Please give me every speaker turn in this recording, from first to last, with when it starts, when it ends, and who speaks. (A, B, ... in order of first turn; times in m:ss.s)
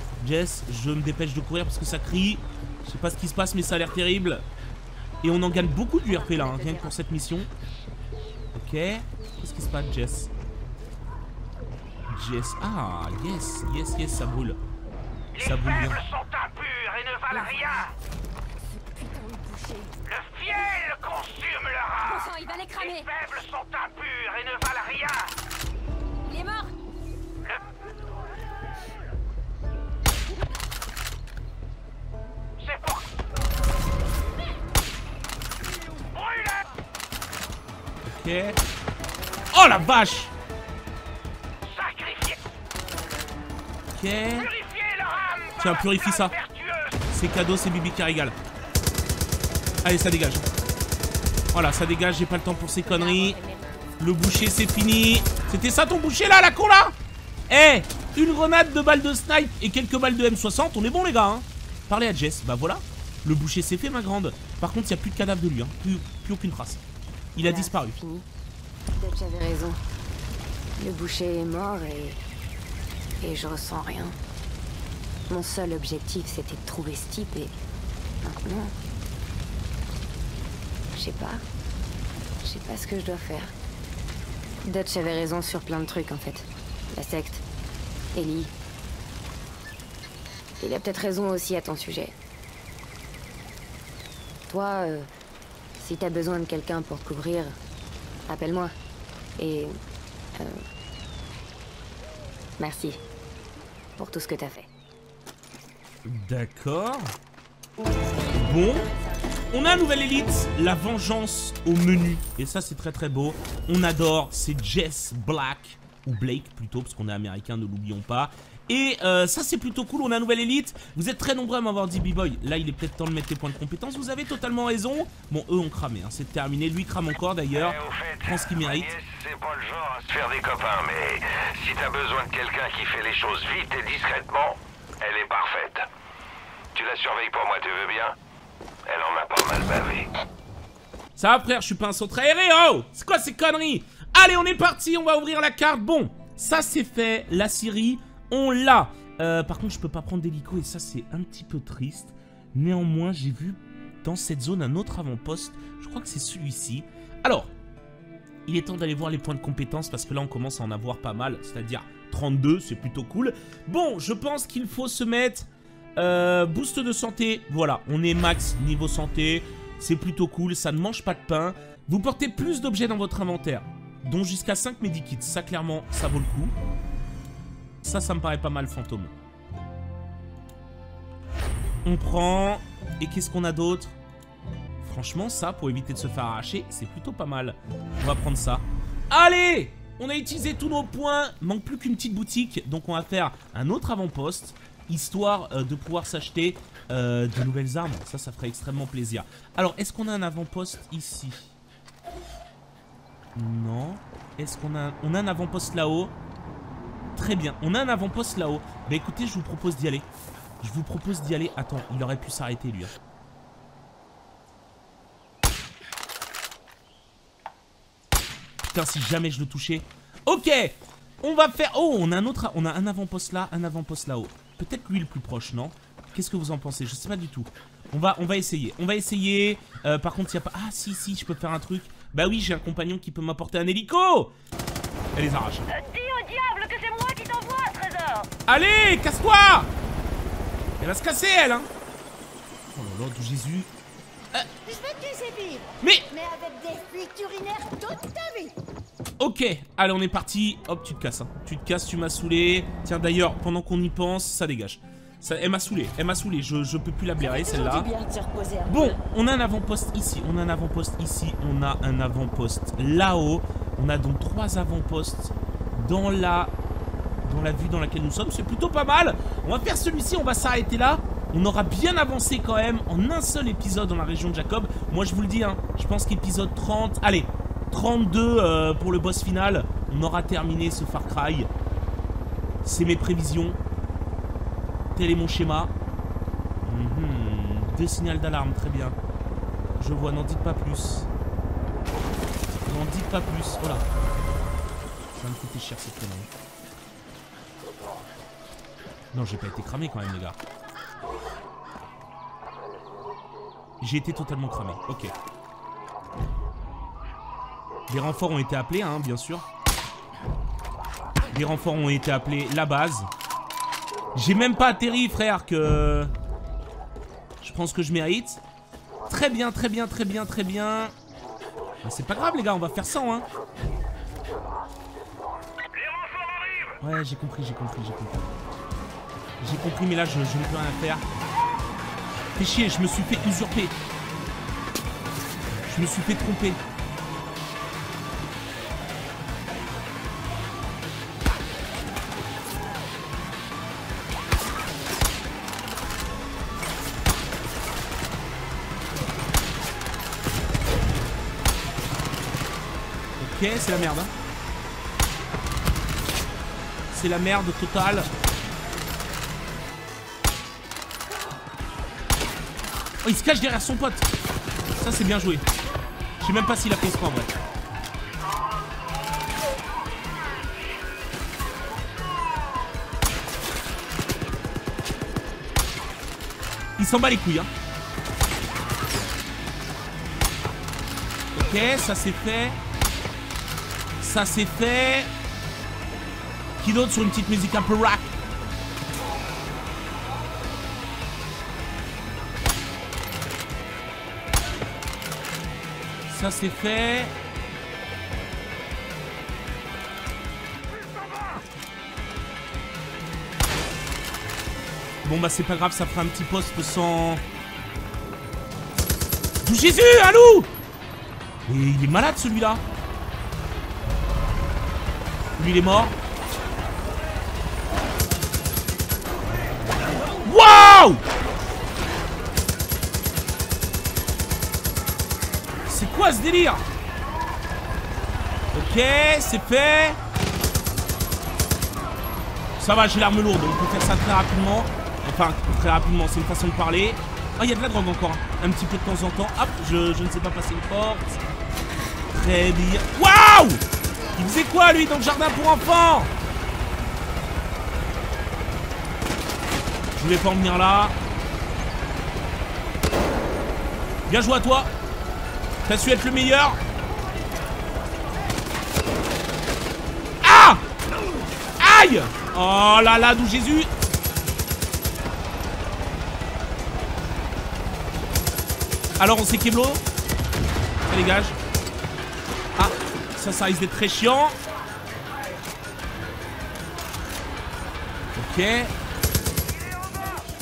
0:00.2-0:04.4 A
0:05.2-0:07.5 A
0:06.0-0:07.0 B
0:08.5-0:10.3 A
0:12.1-0:14.6 A
0:15.3-0:17.9 C
0:15.4-0:16.0 A
0:17.3-0:17.9 B
0:18.6-0:20.0 B
0:20.0-0:25.3 C
0:22.0-0:23.1 B
0:26.2-0:26.7 B
0:32.6-0:33.1 C
0:36.0-0:36.6 C
0:38.0-0:38.6 A
0:39.5-0:40.3 A
0:41.6-0:42.4 C
0:43.9-0:44.5 A
0:44.3-0:47.0 C
0:45.6-0:46.3 A
0:47.1-0:48.4 A
0:49.8-0:50.5 A
0:51.5-0:53.4 A
0:52.8-0:53.7 B
0:54.0-0:56.9 A
0:57.5-1:06.8 A
1:07.3-1:07.9 A
1:07.4-1:08.2 B
1:09.0-1:09.8 B
1:10.8-1:12.2 B
1:13.2-1:14.2 B
1:15.3-1:17.5 B
1:18.2-1:18.7 B
1:20.9-1:21.4 B
1:22.4-1:23.5 B
1:24.6-1:27.4 B
1:28.1-1:28.5 B
1:30.6-1:32.1 B
1:34.5-1:35.1 B
1:35.8-1:37.6 B
1:38.3-1:38.7 B
1:39.4-1:39.7 B
1:40.3-1:40.6 B
1:42.6-1:43.0 B
1:44.0-1:44.7 B
1:46.0-1:47.1 A
1:48.2-1:48.9 A
1:49.5-2:08.9 A
2:07.5-2:15.8 C
2:16.7-2:18.2 C
2:18.8-2:20.1 C
2:21.2-2:37.5 A
2:38.4-2:56.5 A
2:57.8-2:59.1 A
3:01.8-3:04.0 A
3:04.8-3:21.5 A
3:23.3-3:26.1 A
3:27.1-3:30.1 A
3:30.6-3:32.9 A
3:38.6-3:54.3 A
3:55.1-3:55.6 A
3:55.7-3:58.3 D
3:58.5-3:59.7 A
4:00.8-4:01.7 A
4:02.7-4:03.7 A
4:04.6-4:08.5 D
4:05.8-4:06.1 A
4:09.2-4:17.9 A
4:17.3-4:18.4 D
4:17.3-4:18.9 B
4:18.7-4:26.5 A
4:27.2-4:41.5 A
4:42.6-4:43.6 A
4:44.9-4:45.7 A
4:46.6-4:49.0 A
4:49.8-4:51.1 A
4:52.6-4:53.8 A
4:55.1-4:56.3 A
4:59.1-5:00.4 A
5:03.8-5:05.1 A
5:07.9-5:09.4 A
5:11.3-5:13.1 A
5:14.1-5:16.1 A
5:17.4-5:18.4 A
5:19.1-5:20.9 A
5:21.8-5:23.3 A
5:25.8-5:26.8 C
5:26.8-5:28.3 A
5:29.4-5:31.0 A
5:32.3-5:33.8 A
5:35.6-5:36.6 A
5:53.2-5:54.1 A
5:56.9-5:58.1 A
6:03.0-6:04.1 A
6:04.8-6:05.4 A
6:06.2-6:07.3 A
6:16.8-6:17.5 A
6:21.3-6:22.6 A
6:24.0-6:25.1 A
6:26.6-6:28.1 A
6:36.1-6:37.1 A
6:45.0-6:47.2 A
6:49.4-6:50.5 A
6:51.4-6:52.6 A
6:55.4-6:55.9 A
6:59.9-7:01.0 A
7:05.6-7:06.6 A
7:08.5-7:10.0 A
7:12.6-7:21.2 A
7:22.1-7:23.6 A
7:24.2-7:26.1 A
7:29.9-7:31.0 A
7:34.1-7:34.7 A
7:35.6-7:36.6 A
7:40.2-7:40.6 A
7:41.6-7:43.7 A
7:49.0-7:49.8 A
7:50.8-7:51.4 A
7:52.6-7:54.4 A
7:58.1-7:58.7 A